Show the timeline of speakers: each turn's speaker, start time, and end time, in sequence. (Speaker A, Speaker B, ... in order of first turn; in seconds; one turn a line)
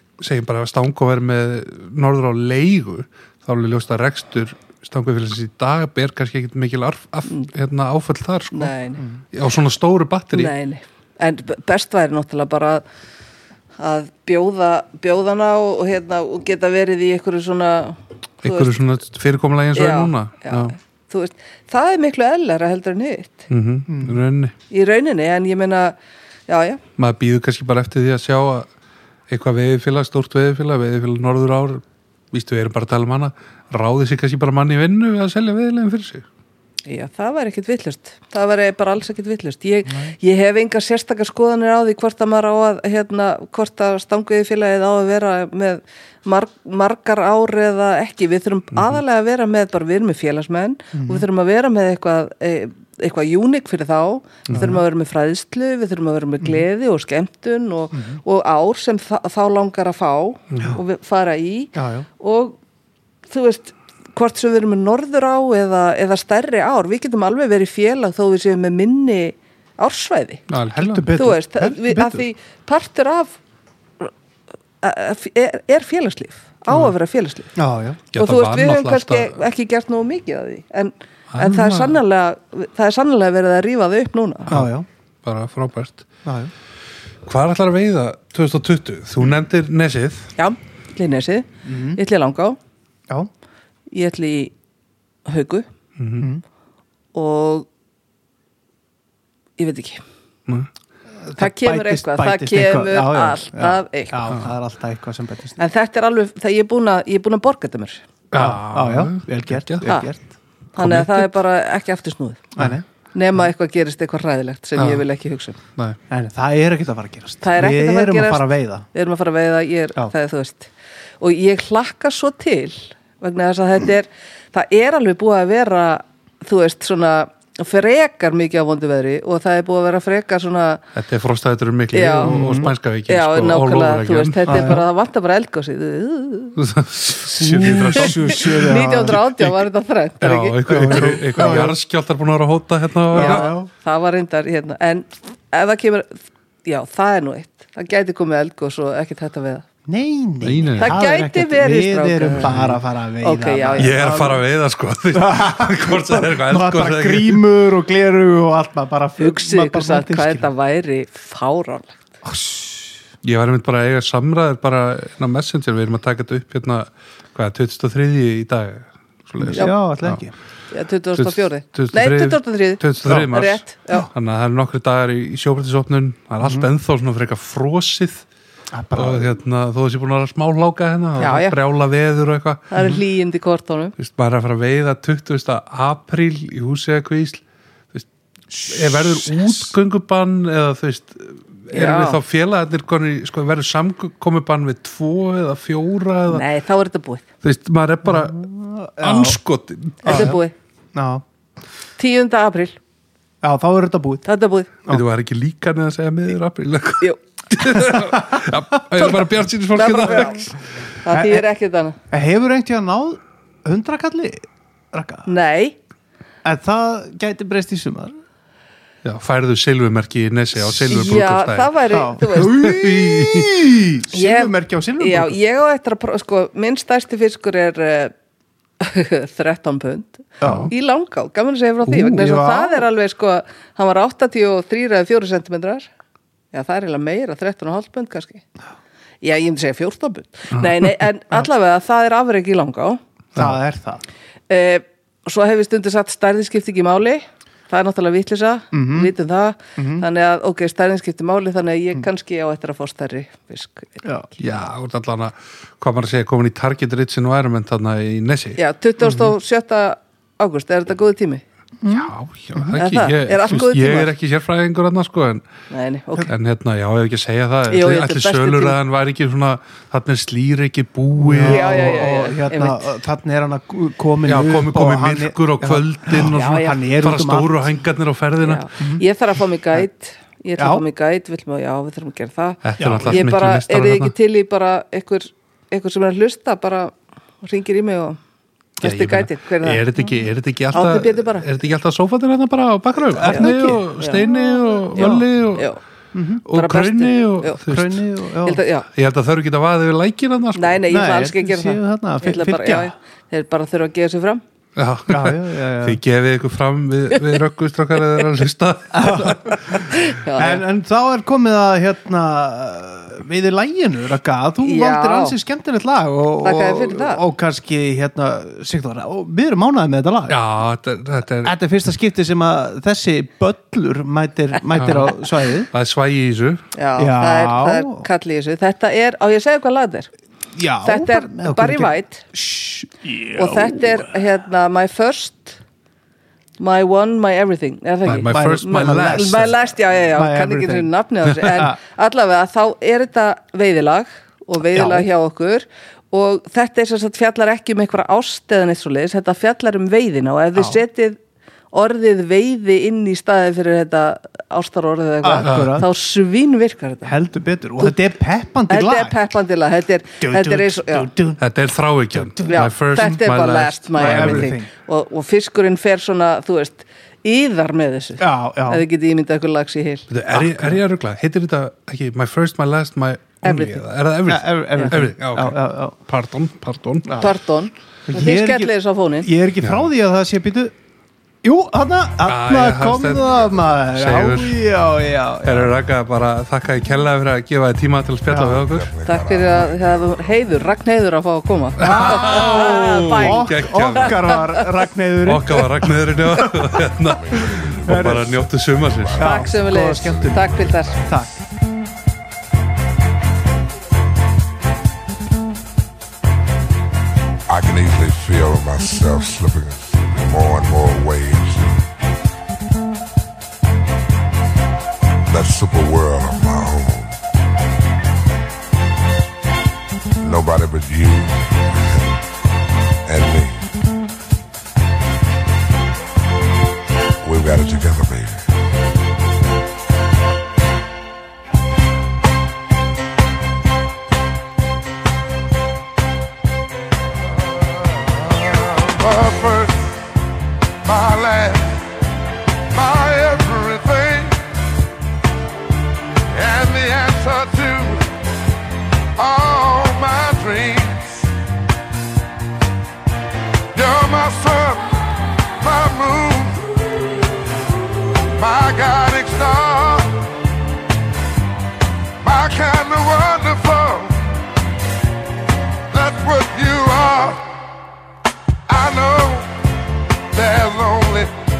Speaker A: 0.2-8.7
Speaker B: 8.5-9.0
Speaker A: 9.3-10.5
Speaker B: 10.3-12.8
Speaker B: 13.8-18.8
Speaker A: 18.4-20.7
Speaker B: 19.7-23.5
Speaker A: 23.5-24.5
Speaker C: 23.9-24.2
Speaker B: 24.7-25.9
Speaker B: 26.5-26.8
Speaker A: 27.0-28.7
Speaker A: 29.3-36.2
Speaker B: 36.9-62.6
Speaker C: 39.9-40.1
Speaker C: 50.9-51.3
Speaker C: 54.5-54.8
Speaker C: 57.9-58.2
Speaker A: 60.5-60.8
Speaker C: 61.7-62.1
Speaker B: 63.3-70.4
Speaker A: 70.5-71.1
Speaker C: 70.7-72.2
Speaker B: 71.1-73.4
Speaker B: 74.8-77.5
Speaker C: 77.5-78.0
Speaker A: 78.1-79.4
Speaker B: 78.1-84.5
Speaker A: 81.3-82.0
Speaker C: 84.5-84.8
Speaker A: 85.2-86.1
Speaker C: 86.2-86.5
Speaker A: 87.2-90.3
Speaker B: 90.4-92.6
Speaker C: 91.6-92.0
Speaker B: 93.9-94.5
Speaker B: 95.3-95.7
Speaker A: 96.0-96.3
Speaker C: 96.2-96.4
Speaker B: 97.1-97.7
Speaker B: 99.6-100.0
Speaker C: 101.2-105.6
Speaker B: 101.4-104.3
Speaker B: 105.6-108.0
Speaker A: 108.3-110.0
Speaker C: 108.3-110.3
Speaker B: 109.8-110.1
Speaker A: 110.8-111.3
Speaker B: 110.8-112.5
Speaker C: 112.5-112.8
Speaker B: 113.1-115.6
Speaker A: 114.8-115.0
Speaker C: 116.1-118.8
Speaker B: 117.4-130.8
Speaker A: 130.9-134.8
Speaker B: 131.9-136.6
Speaker C: 132.2-132.7
Speaker C: 134.5-134.8
Speaker A: 136.6-139.6
Speaker C: 137.3-139.2
Speaker B: 138.0-141.6
Speaker A: 140.2-143.5
Speaker C: 140.7-141.8
Speaker C: 143.1-143.7
Speaker B: 143.1-149.7
Speaker C: 149.8-154.4
Speaker A: 150.4-150.9
Speaker B: 150.8-152.5
Speaker A: 152.4-152.8
Speaker B: 153.2-154.3
Speaker A: 153.8-157.4
Speaker C: 155.1-160.5
Speaker B: 159.2-162.0
Speaker C: 162.2-163.0
Speaker A: 163.2-170.2
Speaker C: 169.4-170.3
Speaker B: 170.7-174.1
Speaker A: 171.2-178.2
Speaker C: 176.4-176.7
Speaker C: 178.7-179.3
Speaker A: 178.9-183.0
Speaker B: 181.2-181.6
Speaker B: 182.7-183.9
Speaker A: 184.0-187.4
Speaker C: 188.5-189.7
Speaker A: 188.6-196.4
Speaker B: 191.7-192.2
Speaker B: 196.3-197.2
Speaker A: 197.4-198.4
Speaker C: 198.0-199.4
Speaker A: 199.0-200.4
Speaker C: 200.0-200.4
Speaker B: 200.0-200.5
Speaker C: 200.9-201.2
Speaker B: 202.0-202.8
Speaker C: 203.4-204.2
Speaker B: 204.2-204.7
Speaker A: 204.9-210.5
Speaker C: 208.0-208.3
Speaker B: 208.9-212.0
Speaker C: 211.1-211.5
Speaker C: 212.1-215.3
Speaker B: 215.2-215.8
Speaker C: 216.4-218.2
Speaker A: 219.0-223.7
Speaker B: 220.7-222.6
Speaker C: 221.9-225.4
Speaker B: 224.1-228.1
Speaker B: 228.8-235.9
Speaker C: 230.4-230.7
Speaker A: 230.4-230.7
Speaker C: 231.9-232.9
Speaker B: 236.5-238.4
Speaker B: 239.2-243.0
Speaker C: 243.3-244.0
Speaker B: 244.5-254.0
Speaker C: 248.7-249.1
Speaker C: 249.8-250.1
Speaker C: 254.0-254.3
Speaker A: 254.4-258.6
Speaker B: 258.6-261.4
Speaker C: 261.8-262.7
Speaker A: 261.9-265.4
Speaker B: 262.7-264.1
Speaker B: 265.7-266.3
Speaker A: 266.3-272.0
Speaker B: 267.7-268.8
Speaker C: 271.2-277.7
Speaker B: 271.4-272.9
Speaker A: 274.2-278.7
Speaker B: 276.3-276.7
Speaker B: 278.4-288.2
Speaker C: 278.8-279.0
Speaker C: 280.6-280.8
Speaker A: 282.6-284.1
Speaker C: 282.8-283.3
Speaker B: 288.8-290.1
Speaker A: 288.8-295.7
Speaker B: 290.7-291.5
Speaker C: 293.1-295.3
Speaker B: 293.2-294.3
Speaker B: 294.9-295.8
Speaker C: 296.1-296.4
Speaker A: 296.4-298.0
Speaker B: 296.5-297.6
Speaker C: 297.6-298.6
Speaker B: 298.4-298.9
Speaker A: 298.9-300.8
Speaker B: 300.5-304.4
Speaker C: 300.9-302.9
Speaker A: 304.8-309.8
Speaker C: 305.1-306.0
Speaker C: 308.9-309.8
Speaker B: 309.7-310.6
Speaker C: 310.3-320.4
Speaker B: 314.6-315.4
Speaker B: 316.4-317.2
Speaker A: 320.3-321.5
Speaker C: 321.4-325.7
Speaker A: 324.7-325.2
Speaker A: 325.7-326.6
Speaker B: 326.7-330.1
Speaker C: 327.0-328.1
Speaker C: 330.5-334.2
Speaker B: 330.8-332.2
Speaker B: 333.3-335.6
Speaker B: 336.6-351.2
Speaker A: 338.1-339.6
Speaker C: 338.2-339.6
Speaker C: 340.1-340.9
Speaker C: 341.4-341.8
Speaker C: 344.7-345.1
Speaker C: 350.6-350.8
Speaker B: 351.7-357.1
Speaker C: 355.2-355.9
Speaker A: 355.4-355.9
Speaker C: 357.0-359.2
Speaker B: 358.7-361.1
Speaker C: 360.2-361.4
Speaker A: 361.4-364.5
Speaker C: 362.1-362.7
Speaker B: 362.5-370.1
Speaker C: 364.0-364.7
Speaker C: 368.2-368.9
Speaker A: 370.1-377.3
Speaker C: 370.3-370.8
Speaker B: 373.4-373.8
Speaker C: 374.2-375.9
Speaker C: 377.0-377.3
Speaker B: 377.2-379.3
Speaker C: 378.1-380.7
Speaker A: 379.6-379.9
Speaker C: 381.4-385.7
Speaker A: 382.2-384.6
Speaker D: 383.3-383.6
Speaker A: 385.4-388.9
Speaker C: 388.3-388.7
Speaker D: 388.5-390.4
Speaker B: 389.1-394.7
Speaker A: 391.8-394.2
Speaker C: 391.8-396.5
Speaker A: 395.2-399.3
Speaker D: 397.0-401.2
Speaker C: 397.8-398.3
Speaker C: 399.2-401.4
Speaker B: 399.2-401.0
Speaker D: 407.5-411.9
Speaker D: 415.3-417.2
Speaker D: 420.2-422.2
Speaker D: 423.0-423.7
Speaker D: 427.2-428.5
Speaker E: 437.3-440.0
Speaker E: 440.8-441.9
Speaker E: 442.7-444.5
Speaker E: 446.3-448.1
Speaker E: 449.1-451.3
Speaker E: 453.7-457.0
Speaker E: 458.4-460.2
Speaker E: 462.2-464.3
Speaker E: 465.9-467.4
Speaker E: 468.7-469.6
Speaker E: 470.3-471.3